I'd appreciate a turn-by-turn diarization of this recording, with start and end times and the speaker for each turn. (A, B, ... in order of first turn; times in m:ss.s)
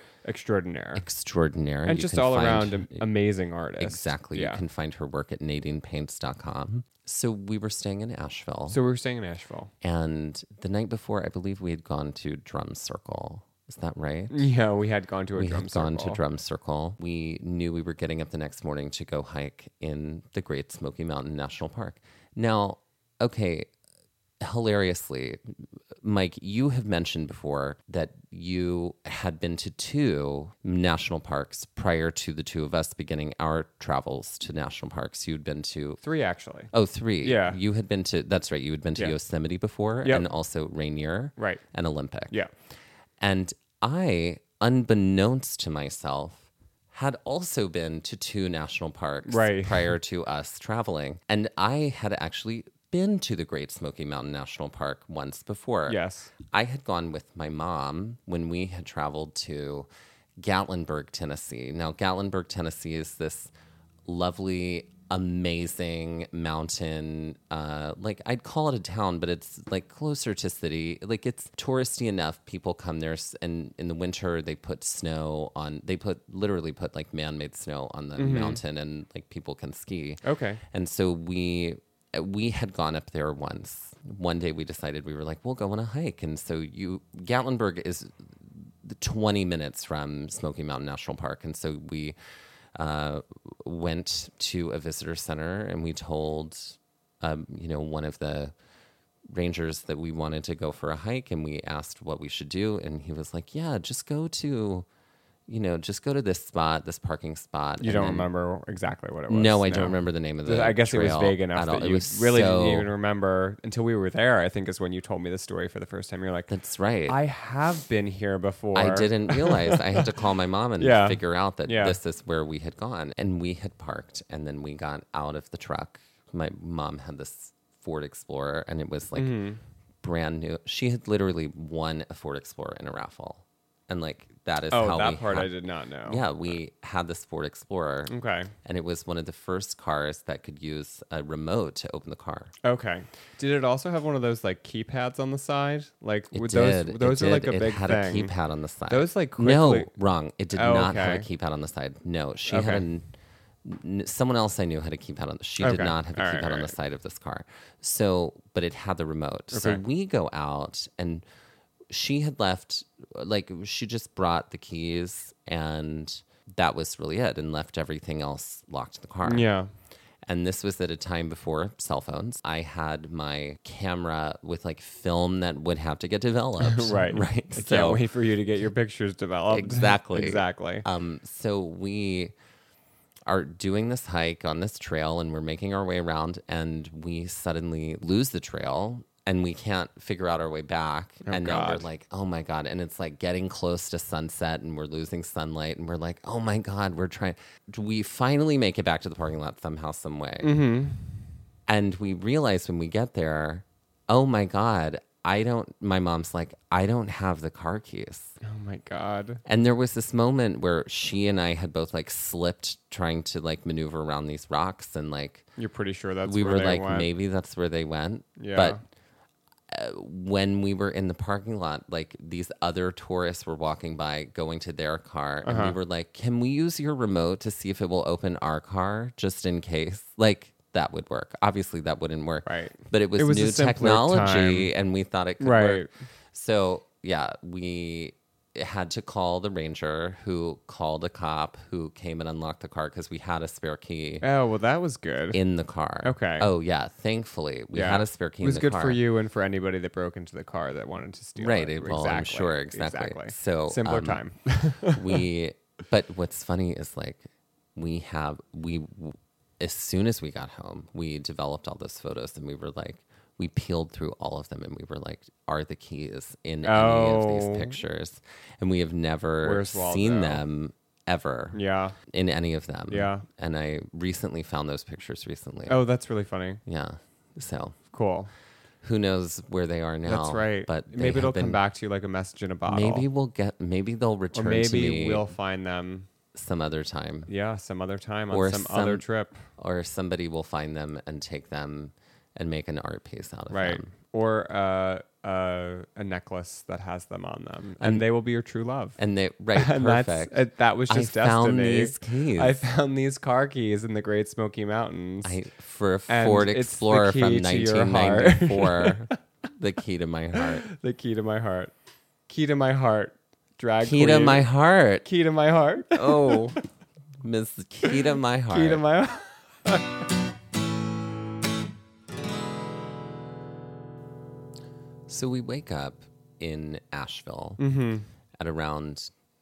0:00.2-0:01.0 A
0:01.0-0:03.0 B
0:01.8-0:04.6 A
0:03.8-0:08.8 B
0:08.7-0:09.7 A
0:09.8-0:14.4 B
0:14.3-0:16.2 A
0:15.3-0:23.7 B
0:24.4-0:25.4 B
0:26.0-0:36.0 B
0:36.0-0:36.7 A
0:36.7-0:42.4 B
0:37.2-0:37.6 A
0:41.4-0:41.6 A
0:43.2-0:59.9 B
0:49.3-0:49.9 A
0:55.9-0:56.3 A
1:00.4-1:03.5 B
1:04.0-1:32.2 B
1:18.2-1:18.6 A
1:20.2-1:20.6 A
1:32.7-1:38.5 B
1:39.3-1:44.9 B
1:45.5-1:48.3 B
1:47.8-1:56.5 A
1:49.3-1:52.9 B
1:56.5-1:57.2 B
1:57.1-2:00.1 A
1:58.7-2:09.4 B
2:00.8-2:02.0 A
2:09.2-2:09.6 A
2:10.0-2:15.5 B
2:14.7-2:16.5 A
2:16.0-2:18.1 B
2:18.1-2:18.5 A
2:18.6-2:22.5 B
2:22.6-2:28.3 A
2:26.3-2:33.1 B
2:28.9-2:29.9 A
2:30.5-2:31.3 A
2:32.5-2:32.8 A
2:33.6-2:41.2 B
2:35.6-2:36.7 A
2:39.5-2:39.8 A
2:41.9-2:49.5 B
2:49.2-2:49.7 A
2:50.2-2:58.0 B
2:56.6-3:00.8 A
2:59.5-3:02.3 B
3:03.3-3:20.6 B
3:11.2-3:11.9 A
3:20.4-3:21.0 A
3:21.7-3:28.4 B
3:28.4-3:29.4 A
3:29.4-3:35.5 B
3:35.6-3:37.1 A
3:36.2-3:38.8 B
3:38.4-3:38.8 A
3:39.7-4:04.2 B
3:45.4-3:45.8 A
3:52.4-3:54.7 A
3:55.4-3:55.9 A
4:04.2-4:05.4 A
4:05.3-4:09.0 B
4:06.0-4:06.5 A
4:07.7-4:15.2 A
4:11.4-4:14.2 B
4:14.8-4:35.8 B
4:26.6-4:27.8 A
4:29.4-4:30.4 A
4:31.5-4:32.0 A
4:32.9-4:33.2 A
4:35.7-4:36.6 A
4:36.6-4:37.8 B
4:37.9-4:38.3 A
4:38.8-4:41.6 B
4:40.0-4:43.0 A
4:42.7-4:45.3 B
4:44.3-4:46.1 A
4:46.3-4:47.3 B
4:47.3-4:49.4 A
4:48.3-4:49.0 B
4:49.6-4:53.9 B
4:53.5-4:59.0 A
4:57.8-4:58.0 B
4:59.0-5:02.6 B
4:59.5-5:05.4 A
5:05.2-5:10.6 B
5:06.1-5:09.2 A
5:10.6-5:11.7 A
5:12.3-5:14.5 A
5:13.8-5:15.1 B
5:15.0-5:16.6 A
5:15.9-5:16.6 B
5:17.2-5:18.8 B
5:18.5-5:20.0 A
5:25.1-5:27.6 B
5:27.6-5:28.1 A
5:28.4-5:29.1 B